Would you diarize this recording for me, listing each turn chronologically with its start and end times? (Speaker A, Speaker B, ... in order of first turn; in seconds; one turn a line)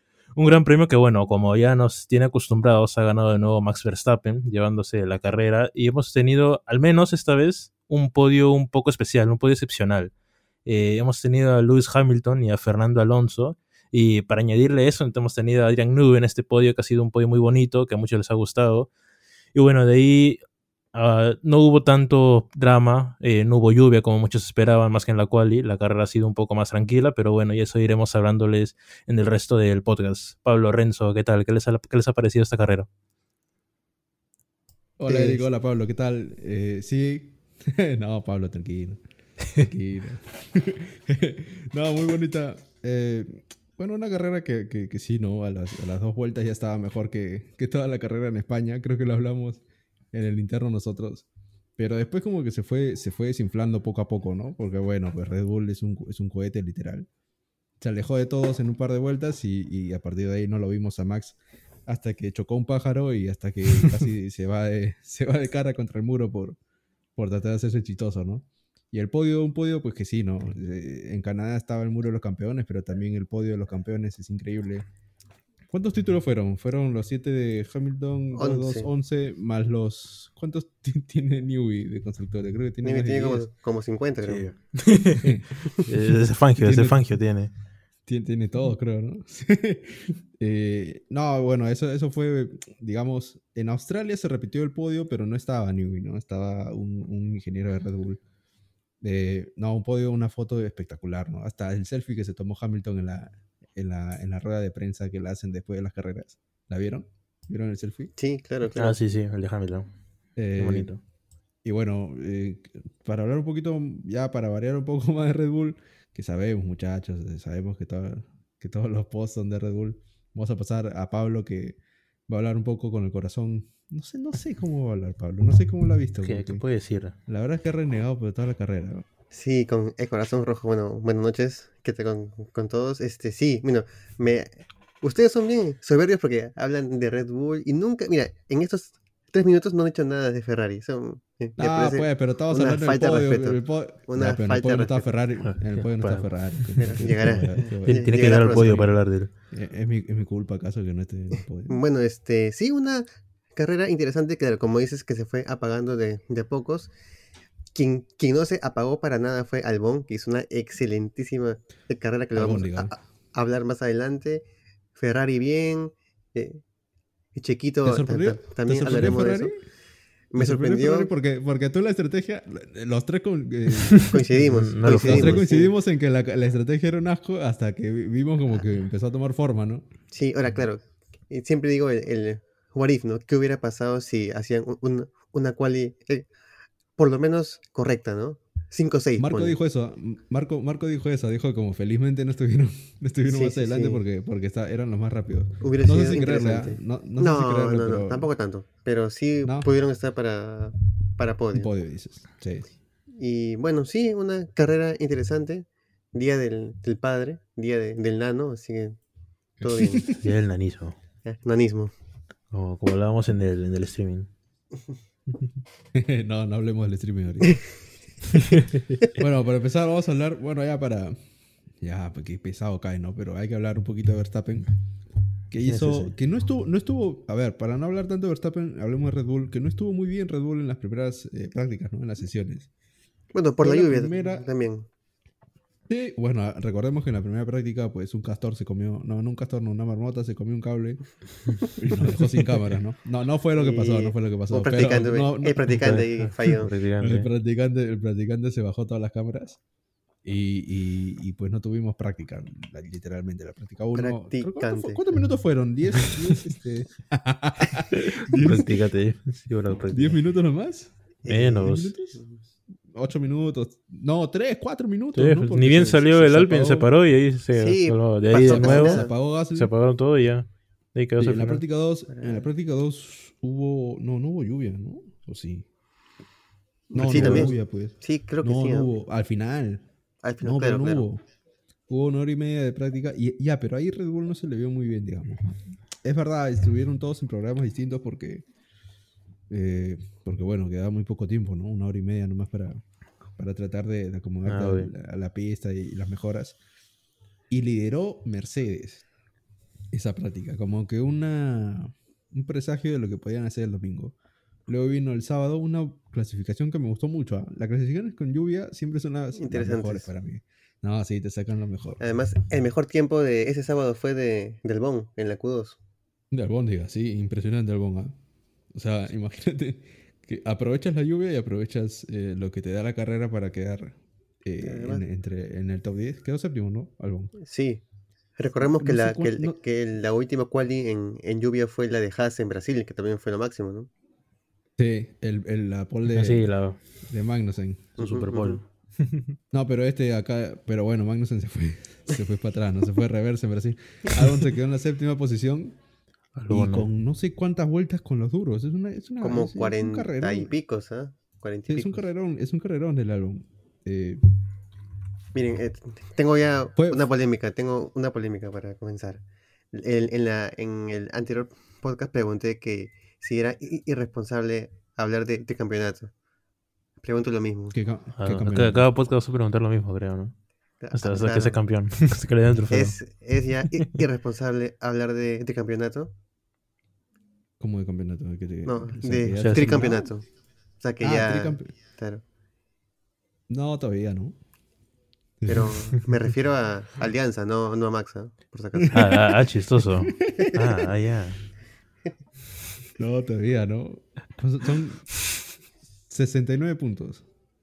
Speaker A: 0.3-10.1
Speaker A: 10.7-18.9
Speaker A: 19.5-20.4
Speaker A: 20.9-32.9
Speaker B: 35.0-39.0
Speaker C: 35.1-35.4
Speaker B: 39.6-51.3
Speaker B: 51.8-57.1
Speaker B: 57.8-66.6
Speaker B: 67.2-74.9
Speaker B: 75.7-83.5
Speaker C: 78.3-78.9
Speaker C: 82.8-84.5
Speaker A: 84.2-87.5
Speaker B: 85.1-87.1
Speaker B: 88.1-98.2
Speaker B: 99.0-108.1
Speaker C: 108.2-109.0
Speaker A: 108.8-109.9
Speaker B: 110.4-110.9
Speaker A: 110.6-111.0
Speaker B: 111.6-126.6
Speaker A: 126.2-127.2
Speaker B: 127.3-129.1
Speaker C: 129.3-145.1
Speaker B: 141.6-148.8
Speaker A: 145.4-146.9
Speaker C: 146.8-148.9
Speaker A: 147.8-149.3
Speaker B: 149.5-151.8
Speaker C: 151.7-156.9
Speaker C: 157.7-164.4
Speaker B: 162.3-162.9
Speaker C: 165.0-166.6
Speaker C: 167.3-169.5
Speaker B: 167.8-169.6
Speaker C: 170.3-171.1
Speaker B: 170.4-179.9
Speaker A: 173.9-175.5
Speaker C: 174.0-175.7
Speaker C: 180.1-186.3
Speaker C: 187.0-189.6
Speaker B: 189.2-198.3
Speaker C: 193.2-194.0
Speaker C: 195.6-201.7
Speaker B: 199.4-199.7
Speaker B: 201.5-202.7
Speaker C: 203.2-209.0
Speaker C: 209.6-210.1
Speaker A: 209.6-211.0
Speaker B: 209.8-210.2
Speaker C: 211.2-211.9
Speaker A: 212.5-214.3
Speaker B: 215.9-217.7
Speaker A: 218.5-219.0
Speaker B: 219.1-221.2
Speaker B: 221.8-224.7
Speaker B: 225.5-232.7
Speaker A: 225.6-226.1
Speaker C: 233.3-234.9
Speaker B: 233.6-234.4
Speaker B: 235.9-241.0
Speaker B: 241.6-245.8
Speaker C: 243.6-246.7
Speaker A: 245.7-247.3
Speaker B: 247.0-249.6
Speaker B: 250.2-258.8
Speaker C: 253.9-255.0
Speaker A: 256.1-256.3
Speaker A: 257.9-260.2
Speaker B: 259.9-260.9
Speaker C: 261.2-262.3
Speaker A: 261.3-261.9
Speaker B: 261.6-262.2
Speaker B: 262.9-266.9
Speaker A: 265.1-271.6
Speaker C: 267.5-269.1
Speaker B: 268.3-269.7
Speaker B: 271.2-275.7
Speaker C: 272.1-272.4
Speaker C: 276.9-279.0
Speaker B: 276.9-279.9
Speaker A: 277.0-277.5
Speaker C: 280.2-281.1
Speaker B: 280.4-281.2
Speaker B: 281.9-288.5
Speaker B: 289.5-292.8
Speaker B: 293.4-296.6
Speaker A: 294.5-294.9
Speaker B: 297.5-299.0
Speaker B: 299.9-304.1
Speaker B: 304.7-312.0
Speaker C: 309.4-310.1
Speaker C: 312.0-315.8
Speaker B: 316.3-318.1
Speaker B: 318.7-327.3
Speaker C: 324.6-325.0
Speaker C: 327.4-327.8
Speaker C: 328.4-333.9
Speaker B: 328.6-329.6
Speaker B: 334.8-336.5
Speaker A: 336.1-336.8
Speaker B: 337.1-338.0
Speaker A: 338.0-339.4
Speaker C: 338.0-338.6
Speaker B: 339.5-345.8
Speaker A: 346.4-346.9
Speaker B: 346.5-350.5
Speaker C: 349.2-352.0
Speaker B: 351.7-354.2
Speaker C: 355.4-366.1
Speaker B: 356.8-357.1
Speaker C: 367.0-367.8
Speaker B: 367.7-368.9
Speaker A: 368.2-370.4
Speaker C: 370.8-371.6
Speaker A: 370.9-373.0
Speaker C: 372.7-376.1
Speaker A: 373.6-374.0
Speaker B: 377.6-380.1
Speaker C: 378.6-380.2
Speaker A: 379.4-379.8
Speaker C: 380.8-382.2
Speaker B: 381.0-381.7
Speaker B: 383.5-384.4
Speaker B: 385.4-386.1
Speaker C: 385.5-389.2
Speaker B: 388.8-390.9
Speaker A: 388.9-391.4
Speaker B: 393.0-395.1
Speaker B: 396.1-397.2